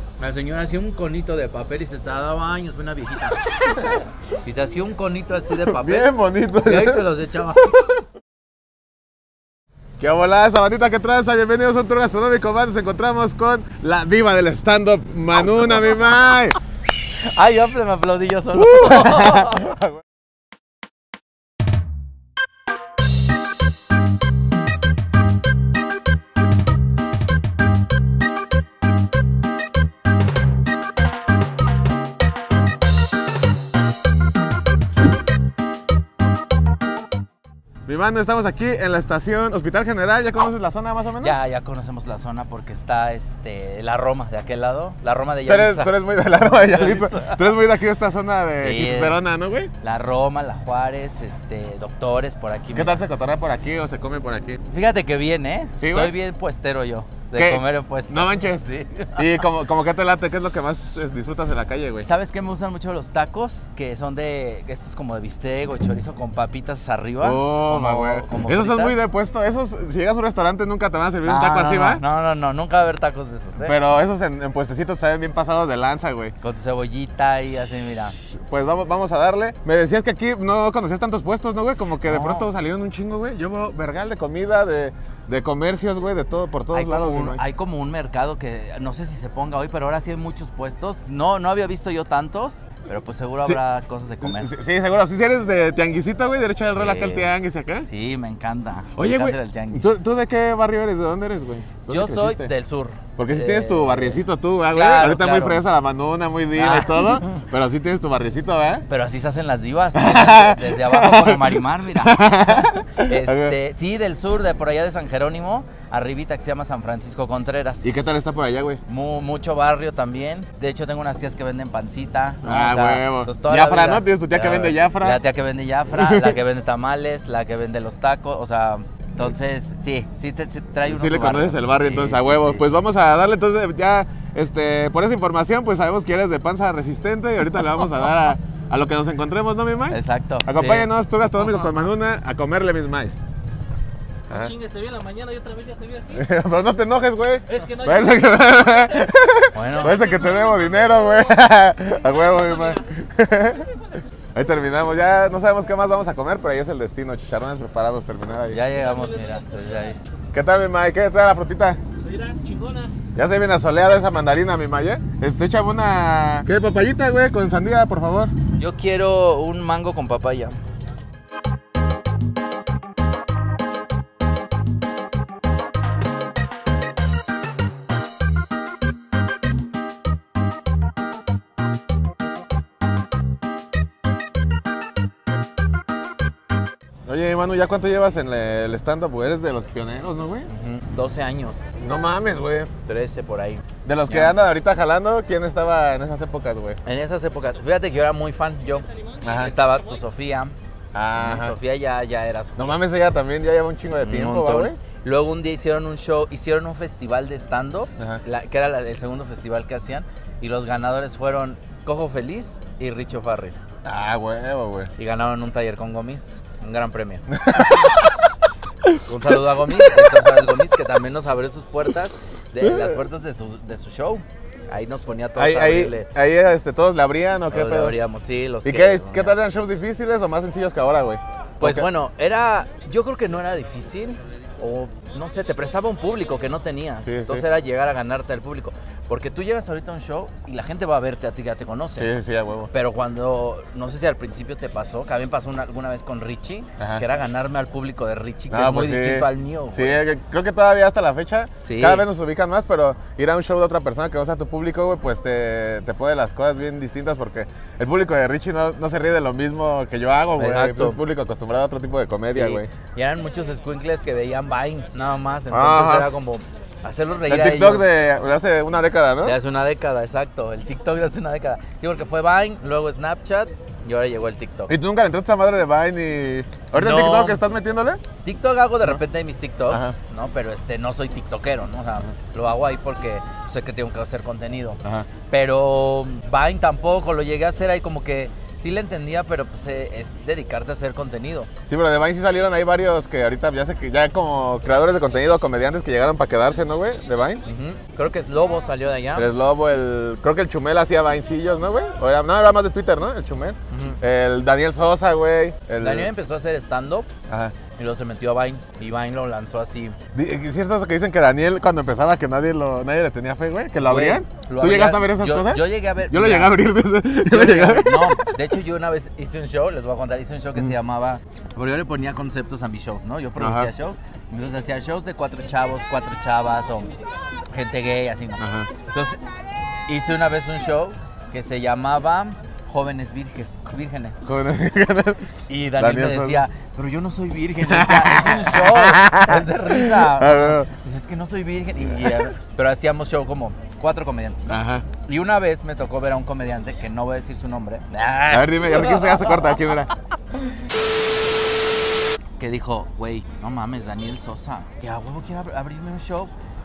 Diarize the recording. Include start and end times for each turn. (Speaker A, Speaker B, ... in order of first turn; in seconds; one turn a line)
Speaker A: 0.2-3.4
Speaker A: 4.4-7.7
Speaker B: 5.6-7.9
Speaker B: 10.0-16.6
Speaker A: 17.2-19.8
Speaker B: 18.6-19.9
Speaker B: 37.9-41.4
Speaker A: 41.2-47.5
Speaker B: 45.5-49.7
Speaker A: 48.6-49.2
Speaker A: 49.8-53.0
Speaker B: 52.7-54.6
Speaker A: 54.7-59.3
Speaker B: 55.8-56.1
Speaker B: 57.4-62.1
Speaker A: 62.0-69.0
Speaker B: 67.2-72.0
Speaker A: 71.2-73.8
Speaker B: 73.6-76.3
Speaker A: 76.4-78.2
Speaker B: 78.3-87.4
Speaker A: 82.0-82.5
Speaker A: 86.7-94.5
Speaker B: 94.2-97.9
Speaker A: 96.8-97.3
Speaker A: 97.9-99.8
Speaker B: 99.0-102.5
Speaker A: 101.9-104.2
Speaker B: 103.2-108.9
Speaker A: 104.7-105.7
Speaker A: 106.5-107.1
Speaker A: 108.9-117.9
Speaker B: 109.9-113.6
Speaker B: 117.8-118.8
Speaker A: 118.9-132.7
Speaker B: 122.4-125.2
Speaker B: 125.9-126.4
Speaker B: 130.8-143.2
Speaker A: 139.9-140.9
Speaker B: 144.3-144.6
Speaker C: 144.3-146.1
Speaker B: 146.1-153.8
Speaker C: 147.6-147.9
Speaker A: 149.5-150.0
Speaker B: 154.3-158.6
Speaker A: 158.5-160.0
Speaker B: 160.3-161.8
Speaker C: 162.3-162.8
Speaker B: 163.2-168.3
Speaker A: 168.6-170.6
Speaker B: 187.1-190.5
Speaker A: 190.5-191.7
Speaker B: 191.8-192.7
Speaker A: 192.8-194.4
Speaker B: 193.8-196.8
Speaker A: 196.8-200.6
Speaker B: 199.2-199.5
Speaker B: 200.9-201.6
Speaker A: 201.2-202.8
Speaker B: 202.6-204.8
Speaker A: 204.0-213.6
Speaker B: 213.8-214.9
Speaker A: 215.0-217.2
Speaker B: 217.3-218.3
Speaker B: 218.8-220.3
Speaker A: 219.0-226.1
Speaker B: 222.6-223.0
Speaker B: 225.4-228.0
Speaker A: 227.5-229.4
Speaker B: 228.6-231.9
Speaker A: 231.6-242.1
Speaker B: 237.0-237.4
Speaker B: 241.9-242.7
Speaker A: 242.7-250.0
Speaker B: 246.8-247.0
Speaker B: 248.5-262.7
Speaker A: 251.6-252.1
Speaker A: 260.4-261.0
Speaker A: 262.3-267.9
Speaker B: 265.5-266.1
Speaker B: 267.3-269.4
Speaker A: 269.2-274.7
Speaker B: 274.7-278.0
Speaker A: 276.7-277.4
Speaker A: 278.2-291.5
Speaker B: 279.7-279.9
Speaker B: 291.7-297.4
Speaker A: 297.4-299.3
Speaker B: 299.1-306.1
Speaker A: 303.7-304.0
Speaker A: 305.8-307.1
Speaker B: 307.3-307.6
Speaker A: 307.8-310.0
Speaker B: 310.1-318.4
Speaker A: 313.8-316.6
Speaker A: 317.3-326.9
Speaker B: 323.4-323.7
Speaker A: 327.5-329.2
Speaker B: 328.4-328.7
Speaker A: 329.9-334.2
Speaker B: 334.2-336.4
Speaker A: 335.5-349.6
Speaker B: 337.7-340.7
Speaker B: 341.8-342.3
Speaker B: 344.5-344.9
Speaker B: 348.3-349.9
Speaker A: 352.4-356.3